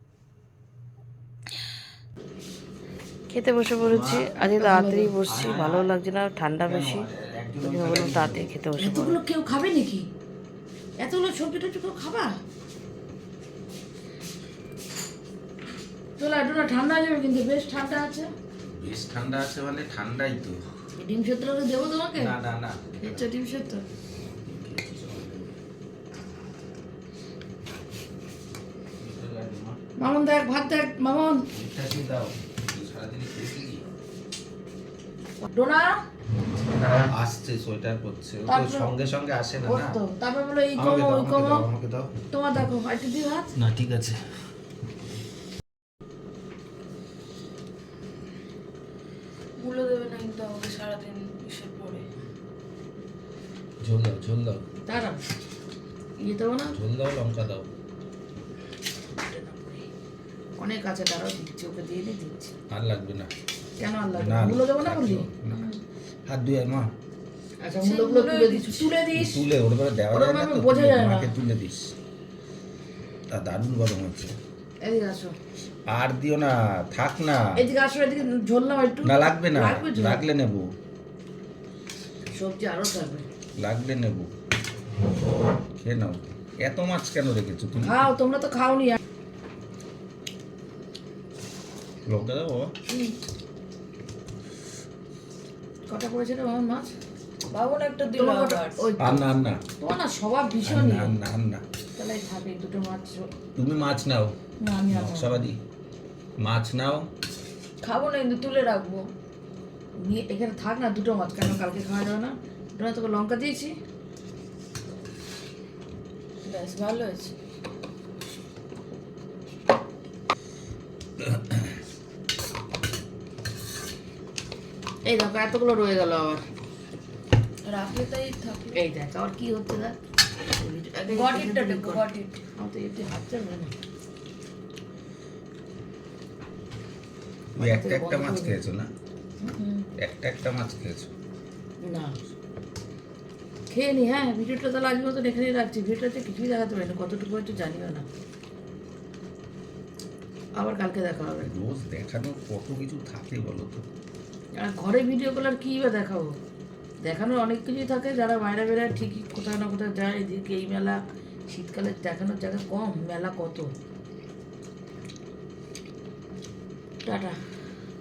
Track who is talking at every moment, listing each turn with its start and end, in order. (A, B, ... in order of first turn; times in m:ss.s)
0:03.3-0:07.1 A
0:03.8-0:04.6 B
0:04.6-0:05.1 C
0:05.2-0:05.9 B
0:06.6-0:08.5 B
0:07.6-0:09.2 A
0:08.8-0:10.1 C
0:11.0-0:12.3 C
0:16.2-0:18.3 C
0:18.7-0:20.6 B
0:21.0-0:22.4 C
0:22.1-0:23.2 B
0:23.0-0:23.8 C
0:24.5-0:25.5 B
0:29.0-0:29.8 B
0:30.0-0:31.4 C
0:31.5-0:33.8 B
0:35.4-0:36.0 C
0:36.8-0:40.0 B
0:38.5-0:38.9 C
0:39.6-0:41.6 C
0:40.8-0:42.1 B
0:42.3-0:43.5 C
0:43.6-0:44.2 B
0:49.6-0:52.1 D
0:53.8-0:54.6 B
0:54.9-0:55.2 C
0:56.2-0:56.8 C
0:56.7-0:57.7 B
0:59.2-0:59.9 C
1:00.6-1:02.5 C
1:02.7-1:03.3 B
1:03.8-1:05.8 C
1:04.2-1:05.6 B
1:06.3-1:06.9 B
1:07.6-1:09.4 C
1:07.8-1:09.0 D
1:09.1-1:11.9 B
1:10.1-1:11.3 C
1:13.3-1:14.4 B
1:14.8-1:15.3 C
1:15.9-1:17.6 B
1:17.6-1:20.2 C
1:19.0-1:20.7 B
1:22.4-1:23.2 C
1:23.6-1:24.3 B
1:25.8-1:28.0 B
1:27.8-1:29.0 C
1:32.0-1:32.7 B
1:35.9-1:36.9 C
1:37.5-1:38.9 D
1:38.1-1:39.2 C
1:39.0-1:39.6 B
1:39.8-1:41.1 C
1:40.6-1:41.6 B
1:42.0-1:43.2 C
1:43.6-1:44.3 B
1:44.6-1:45.4 C
1:44.9-1:45.6 B
1:46.4-1:47.1 B
1:47.8-1:49.1 D
1:50.0-1:53.7 C
1:56.4-1:57.4 D
2:01.2-2:01.5 B
2:05.0-2:06.4 C
2:07.6-2:08.8 D
2:08.8-2:10.0 C
2:10.6-2:13.7 C
2:11.1-2:12.4 D
2:17.5-2:18.9 B
2:17.6-2:18.6 C
2:19.4-2:19.8 C
2:20.0-2:21.1 B
2:21.8-2:22.1 C
2:23.7-2:28.0 C
2:30.6-2:31.5 C
2:31.4-2:33.9 B
2:34.6-2:36.4 C
2:37.0-2:41.0 C
2:41.5-2:43.7 C
2:47.0-2:47.4 C